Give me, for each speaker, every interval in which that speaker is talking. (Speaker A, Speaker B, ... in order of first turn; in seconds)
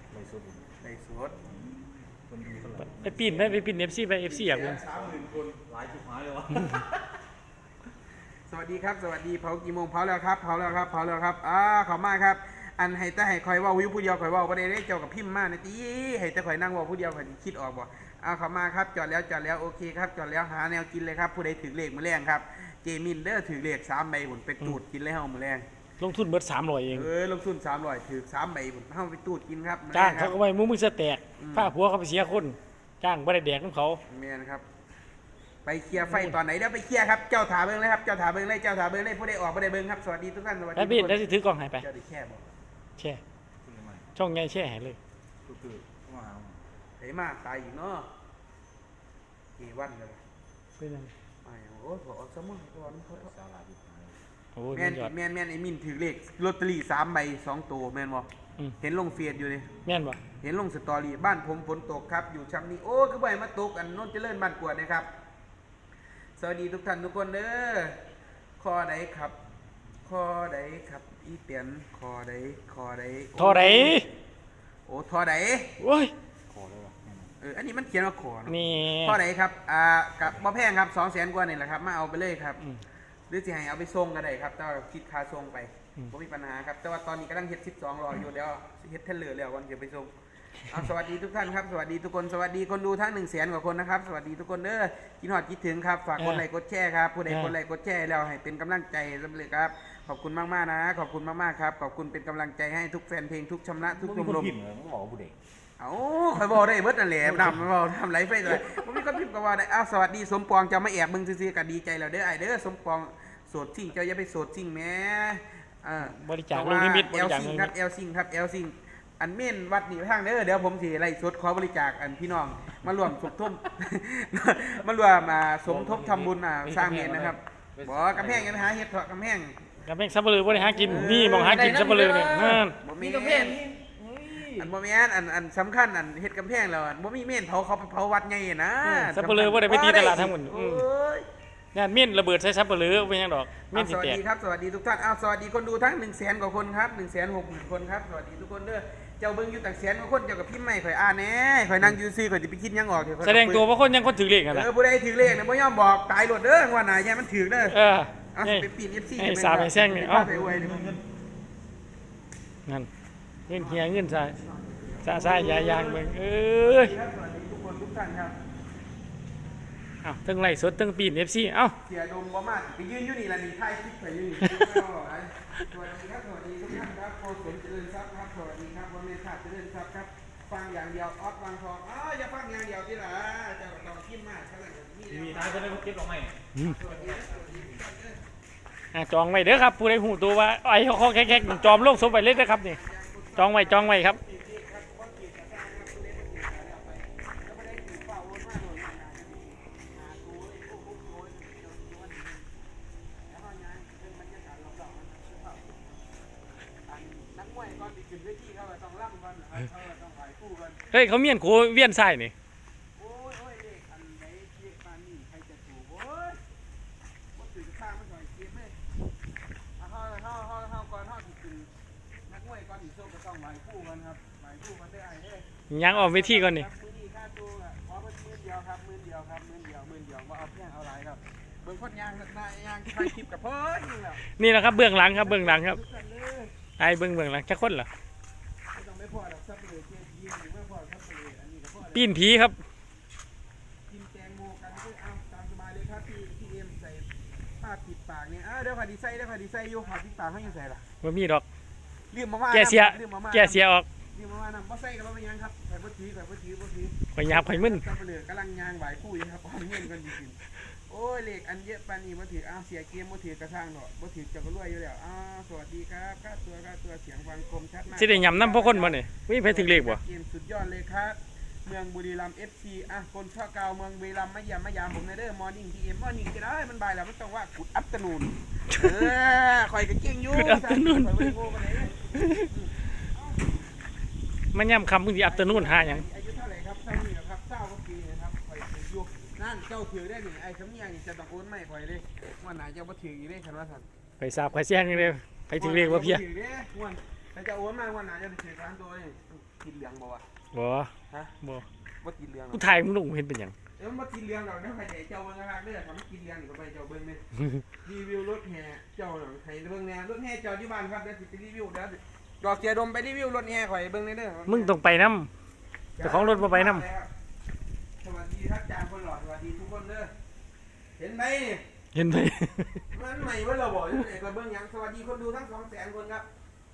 Speaker A: 0.1-0.7, 1.4-3.7, 4.9-6.9, 43.6-44.1, 45.5-46.6, 53.0-54.2, 76.5-77.3, 103.9-105.3, 125.7-128.7, 130.5-134.7, 160.2-161.0, 185.1-186.4
Speaker B: 0.8-1.4, 4.3-5.6, 8.5-25.6, 26.9-30.4, 31.4-31.7, 34.1-34.6, 35.6-41.2, 41.7-42.4, 47.0-48.1, 49.6-50.2, 51.4-53.3, 54.7-58.3, 58.8-59.7, 60.4-65.1, 66.4-68.0, 68.6-69.3, 70.0-74.1, 74.9-75.7, 77.4-82.6, 83.3-90.1, 90.7-104.5, 105.8-129.7, 130.8-132.2, 132.7-133.6, 134.5-141.2, 143.7-153.7, 154.5-157.8, 158.3-161.0, 163.5-168.3, 171.8-185.9, 186.6-188.2, 191.1-202.5, 203.3-206.0, 206.9-210.8, 213.0-216.4, 217.3-218.8, 219.8-221.7, 222.3-234.3, 235.0-236.5, 238.7-242.3, 243.9-247.1, 247.6-250.8, 252.1-283.5, 285.2-293.9, 294.9-300.2, 302.0-302.7, 303.8-307.2, 307.8-314.7, 316.0-317.1, 318.0-320.1, 321.0-321.6, 322.9-326.3
Speaker C: 2.8-4.8, 26.0-27.1, 29.9-34.0, 36.0-36.4, 40.8-41.9, 44.2-45.0, 50.8-51.1, 54.6-55.1, 59.9-60.2, 73.4-74.0, 75.8-76.1, 78.5-79.2, 96.2-96.4, 97.3-97.5, 107.3-107.6, 116.0-117.7, 129.8-132.8, 138.8-140.8, 141.7-144.2, 153.2-154.7, 157.7-160.3, 163.5-164.4, 165.0-166.9, 170.0-171.8, 188.9-192.8, 193.4-194.2, 210.9-212.3, 225.7-226.7, 234.3-235.8, 236.8-237.9, 241.9-242.6, 251.0-251.4, 252.5-253.9, 257.1-257.8, 267.9-270.0, 280.4-281.4, 282.1-282.5, 284.5-286.0, 294.2-296.2, 300.5-301.7, 302.5-303.6, 314.5-315.3, 316.0-316.9, 321.9-322.9